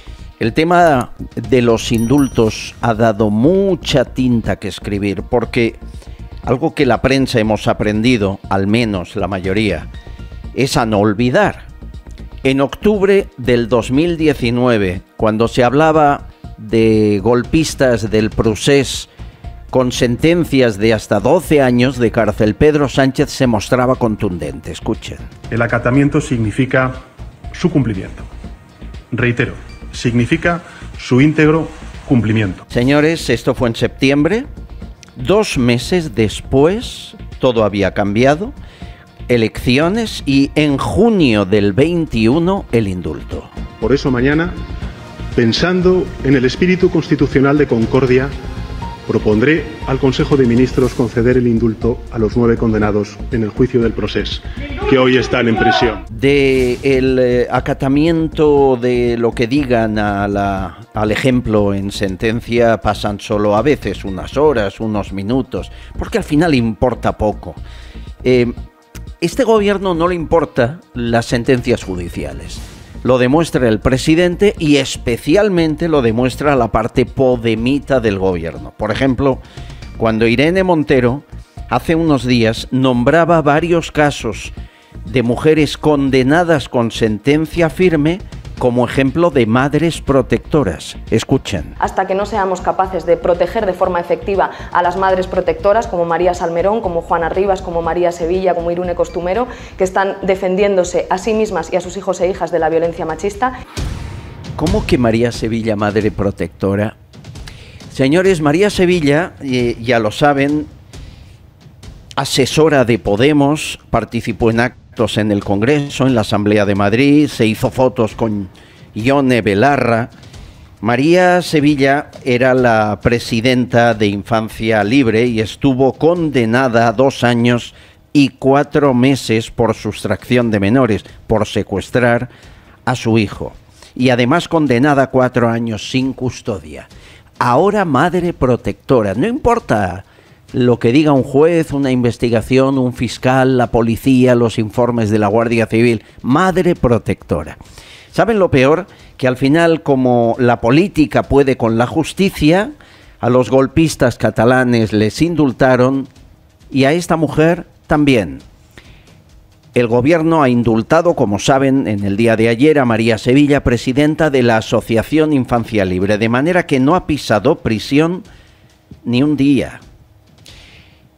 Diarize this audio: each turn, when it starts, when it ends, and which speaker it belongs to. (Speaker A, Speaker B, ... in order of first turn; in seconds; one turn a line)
Speaker A: 0.4-5.8
Speaker A: 6.4-9.9
Speaker A: 10.5-11.7
Speaker A: 12.4-19.1
Speaker A: 19.7-25.3
Speaker B: 25.5-26.9
Speaker B: 27.5-28.3
Speaker B: 29.1-32.6
Speaker A: 32.7-34.5
Speaker A: 35.1-38.5
Speaker A: 39.3-43.5
Speaker B: 43.8-44.5
Speaker B: 45.4-48.3
Speaker B: 49.1-56.0
Speaker A: 56.1-67.6
Speaker A: 68.2-68.5
Speaker A: 69.2-79.4
Speaker A: 80.0-84.5
Speaker A: 85.0-91.8
Speaker C: 91.8-103.5
Speaker A: 104.6-107.0
Speaker A: 107.9-110.7
Speaker A: 112.2-120.1
Speaker A: 120.8-132.3
Speaker A: 132.8-136.9
Speaker A: 137.4-147.6
Speaker A: 148.1-156.1
Speaker A: 156.7-158.4
Speaker A: 159.7-168.2
Speaker A: 169.0-169.8